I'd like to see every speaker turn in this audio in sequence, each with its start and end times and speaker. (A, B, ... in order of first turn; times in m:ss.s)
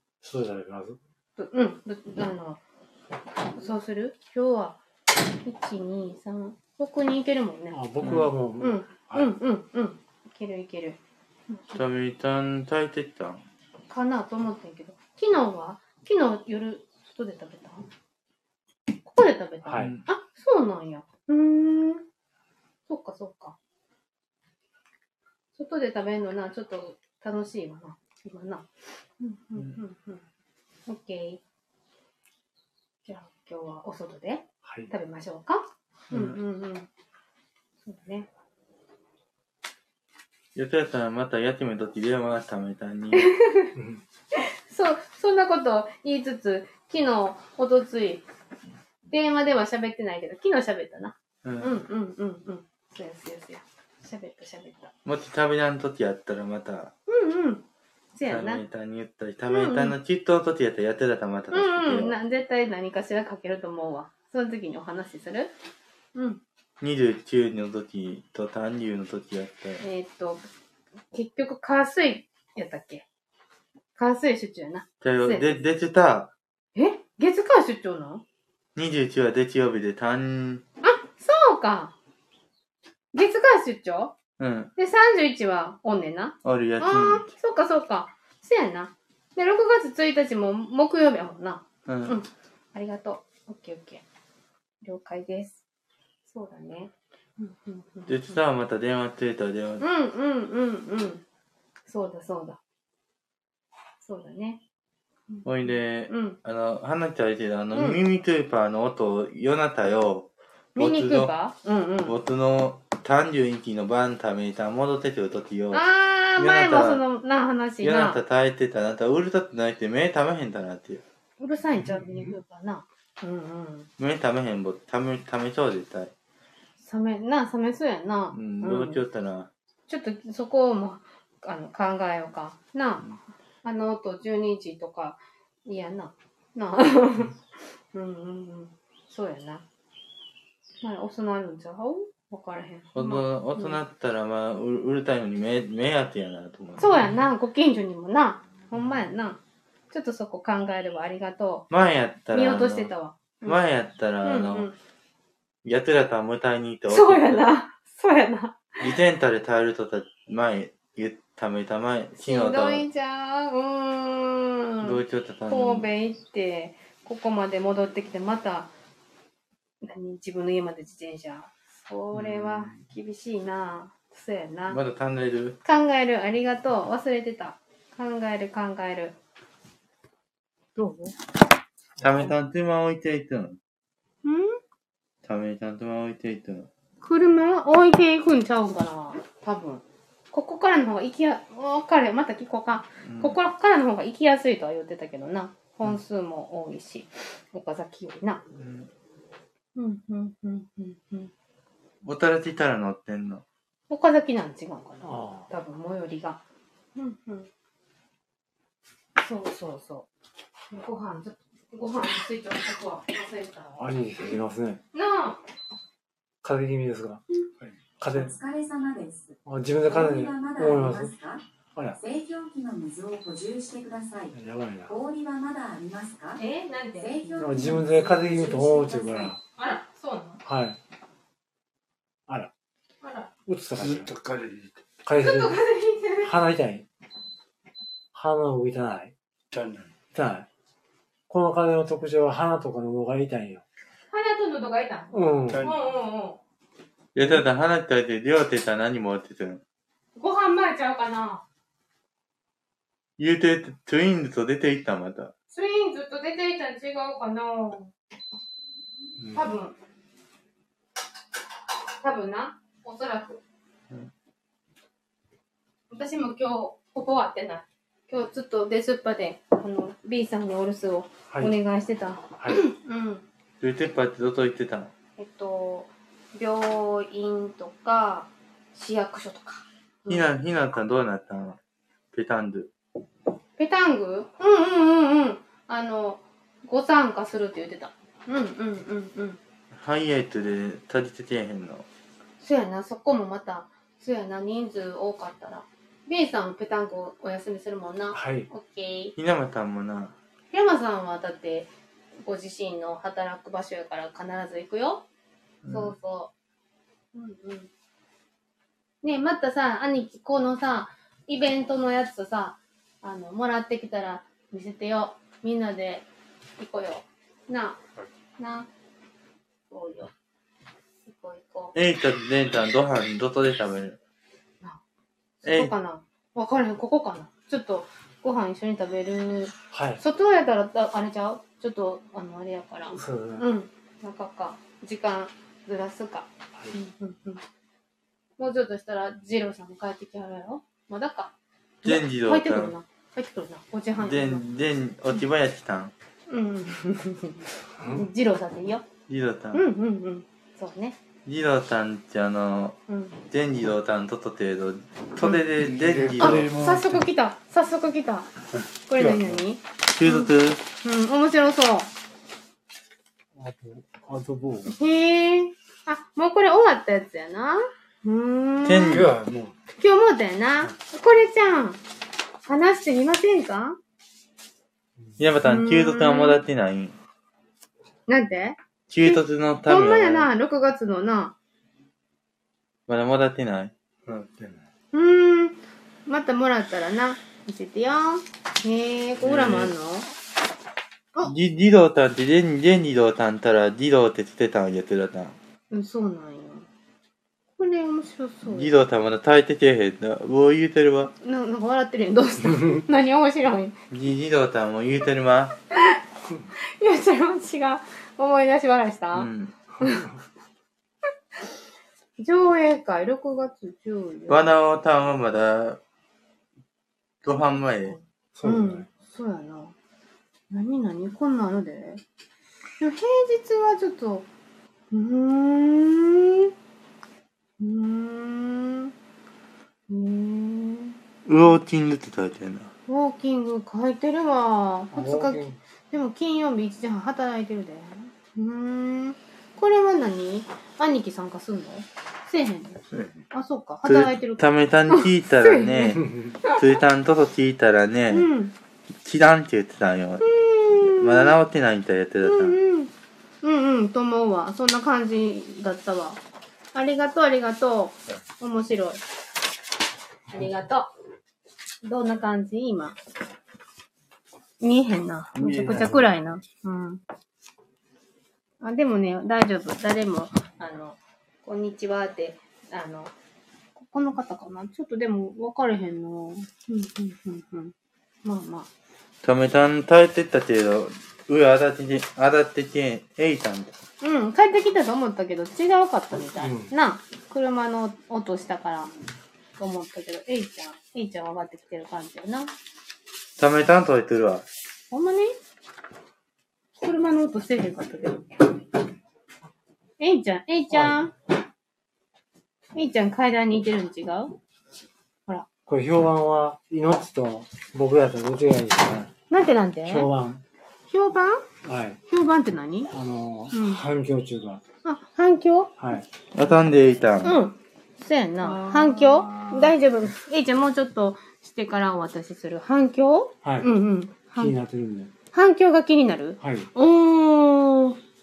0:00.2-0:01.0 A
0:01.4-0:02.6 B
0:03.5-0:04.8 B
0:05.4-0:07.8 B
0:07.7-0:09.3 A
0:08.0-0:08.3 C
0:08.6-0:11.0 B
0:11.5-0:11.8 B
0:11.7-0:13.4 C
0:13.9-0:17.8 B
0:19.0-0:22.0 B
0:19.6-0:20.0 A
0:19.7-0:20.0 C
0:22.9-0:23.6 B
0:25.6-0:28.7 B
0:29.2-0:30.2 B
0:30.9-0:31.4 B
0:33.0-0:36.9 B
0:34.6-0:34.9 A
0:36.1-0:36.4 C
0:37.8-0:38.3 B
0:40.6-0:43.3 C
0:43.1-0:43.8 B
0:43.8-0:44.0 A
0:44.3-0:48.3 B
0:49.1-0:54.9 B
0:51.4-0:51.7 C
0:55.0-0:56.9 C
0:57.1-0:57.6 B
0:58.2-0:58.6 B
0:58.3-1:02.2 C
0:59.5-1:00.0 B
1:01.5-1:05.5 B
1:06.2-1:06.4 B
1:06.8-1:09.8 C
1:09.8-1:10.4 B
1:11.1-1:13.0 B
1:14.0-1:15.6 B
1:15.0-1:16.3 C
1:16.8-1:18.2 B
1:18.8-1:20.6 C
1:20.8-1:21.9 B
1:23.1-1:24.2 B
1:24.4-1:24.7 C
1:24.8-1:34.0 B
1:26.4-1:27.3 C
1:31.9-1:32.2 C
1:34.8-1:35.6 B
1:36.3-1:38.4 B
1:38.1-1:39.8 C
1:39.8-1:41.2 B
1:41.9-1:42.6 B
1:44.0-1:44.6 B
1:45.3-1:46.4 B
1:45.4-1:51.3 C
1:47.7-1:48.0 B
1:50.8-1:52.1 B
1:52.0-1:55.9 C
1:55.7-1:58.2 B
1:56.4-1:57.0 C
1:57.8-2:01.0 C
2:01.4-2:03.9 B
2:01.8-2:02.3 A
2:04.0-2:06.1 C
2:06.8-2:09.0 B
2:08.3-2:09.5 C
2:09.9-2:17.4 B
2:17.9-2:19.6 B
2:20.8-2:23.8 B
2:23.0-2:27.1 C
2:26.8-2:29.4 B
2:29.9-2:31.7 B
2:31.7-2:32.9 C
2:32.3-2:33.6 B
2:33.4-2:34.7 C
2:34.2-2:34.8 B
2:35.6-2:37.4 C
2:36.9-2:38.8 B
2:38.8-2:42.8 C
2:42.2-2:48.7 B
2:44.8-2:45.9 C
2:49.8-2:54.8 B
2:52.1-2:52.8 C
2:54.7-2:55.6 C
2:55.6-2:59.2 B
3:00.8-3:01.2 B
3:02.0-3:03.6 C
3:04.2-3:04.6 B
3:05.2-3:06.7 C
3:07.0-3:18.4 B
3:13.0-3:13.4 C
3:18.6-3:18.9 C
3:19.8-3:21.3 B
3:22.0-3:23.4 C
3:23.9-3:26.4 B
3:25.0-3:25.5 A
3:27.0-3:27.5 B
3:29.2-3:30.1 B
3:30.7-3:34.3 B
3:33.8-3:34.8 A
3:34.9-3:35.4 B
3:36.4-3:37.2 A
3:38.0-3:38.3 A
3:38.1-3:41.4 D
3:39.5-3:41.1 A
3:42.0-3:44.4 D
3:44.3-3:44.9 A
3:44.9-3:46.4 D
3:46.4-3:47.4 B
3:47.0-3:49.3 D
3:47.4-3:49.4 A
3:49.6-3:50.4 B
3:50.4-3:50.8 A
3:53.0-3:53.3 B
3:53.5-3:54.1 A
3:53.8-3:54.9 E
3:55.0-3:55.6 A
3:55.2-3:56.3 B
3:56.2-3:56.9 A
3:58.1-3:59.1 A
3:59.5-3:59.9 E
4:00.1-4:00.5 A
4:01.3-4:03.6 A
4:04.1-4:06.4 B
4:05.1-4:05.7 A
4:05.5-4:05.8 E
4:07.2-4:09.6 C
4:10.2-4:11.4 B
4:13.2-4:15.3 C
4:15.5-4:17.9 B
4:19.3-4:19.8 B
4:22.0-4:23.4 B
4:25.9-4:33.2 B
4:33.6-4:34.9 C
4:35.2-4:40.3 B
4:40.1-4:41.6 C
4:42.1-4:42.7 C
4:43.6-4:49.4 B
4:49.8-4:51.9 C
4:52.4-4:59.1 B
4:58.1-4:58.5 A
4:59.2-5:00.2 C
5:00.5-5:01.7 B
5:02.2-5:05.0 B
5:05.6-5:05.9 C
5:05.7-5:06.3 B
5:07.1-5:07.7 B
5:09.0-5:16.1 B
5:16.6-5:17.8 B
5:18.4-5:18.7 B
5:19.7-5:20.1 B
5:21.0-5:21.8 B
5:21.8-5:24.0 C
5:25.4-5:37.4 B
5:25.4-5:25.7 C
5:29.7-5:30.0 A
5:32.9-5:33.5 A
5:38.4-5:44.4 B
5:41.8-5:42.7 C
5:44.0-5:45.9 C
5:46.3-5:48.9 B
5:47.8-5:48.1 A
5:49.1-5:49.6 C
5:49.5-5:51.0 B
5:51.3-5:52.8 C
5:52.9-5:53.2 B
5:53.3-5:56.5 C
5:55.6-5:57.0 E
5:56.2-5:58.3 B
5:58.9-6:01.9 B
5:59.0-5:59.4 E
5:59.9-6:00.6 C
6:03.4-6:04.8 A
6:04.7-6:09.1 B
6:08.6-6:09.1 C
6:08.9-6:09.5 E
6:09.1-6:09.5 A
6:09.8-6:11.8 B
6:12.5-6:13.8 B
6:15.2-6:17.0 C
6:15.4-6:16.4 B
6:18.1-6:21.4 B
6:18.9-6:20.3 C
6:22.9-6:23.7 C
6:24.1-6:24.6 E
6:24.9-6:30.2 B
6:29.2-6:29.7 C
6:31.2-6:35.4 C
6:35.7-6:36.7 B
6:37.6-6:38.7 B
6:38.5-6:41.1 C
6:41.2-6:43.8 B
6:43.9-6:45.6 C
6:46.6-6:50.1 B
6:49.1-6:49.5 C
6:52.2-6:54.5 B
6:54.3-6:55.8 C
6:57.2-6:58.0 C
6:57.3-6:59.8 B
6:58.3-6:58.9 A
7:00.5-7:02.0 B
7:02.8-7:04.3 B
7:04.9-7:06.5 B
7:07.6-7:08.9 B
7:09.9-7:11.6 B
7:11.3-7:12.7 C
7:12.9-7:26.6 B
7:14.9-7:15.6 A
7:23.8-7:28.3 C
7:26.0-7:26.3 A
7:28.1-7:28.5 B
7:29.0-7:32.6 C
7:30.2-7:31.4 B
7:32.2-7:32.9 B
7:33.4-7:36.2 B
7:36.7-7:39.0 B
7:40.3-7:40.9 B
7:41.8-7:43.0 B
7:44.6-7:47.0 B
7:45.4-7:46.0 C
7:48.6-7:53.1 B
7:53.8-7:58.7 B
7:59.2-8:03.8 C
8:04.0-8:08.9 B
8:06.4-8:06.7 A
8:09.6-8:12.5 B
8:13.4-8:14.4 C
8:14.9-8:15.4 B
8:16.8-8:18.4 B
8:20.0-8:21.2 B
8:20.7-8:21.0 A
8:22.8-8:24.4 B
8:25.7-8:29.1 A
8:29.3-8:30.1 B
8:29.9-8:30.4 A
8:30.9-8:31.5 B
8:31.6-8:32.0 A
8:32.1-8:32.9 B
8:32.9-8:34.6 A
8:33.5-8:33.8 B
8:34.8-8:35.7 B
8:35.8-8:36.1 A
8:36.3-8:37.4 C
8:37.2-8:44.6 B
8:39.1-8:39.7 A
8:43.4-8:43.7 A
8:44.4-8:45.1 A
8:45.3-8:48.0 B
8:46.4-8:46.7 A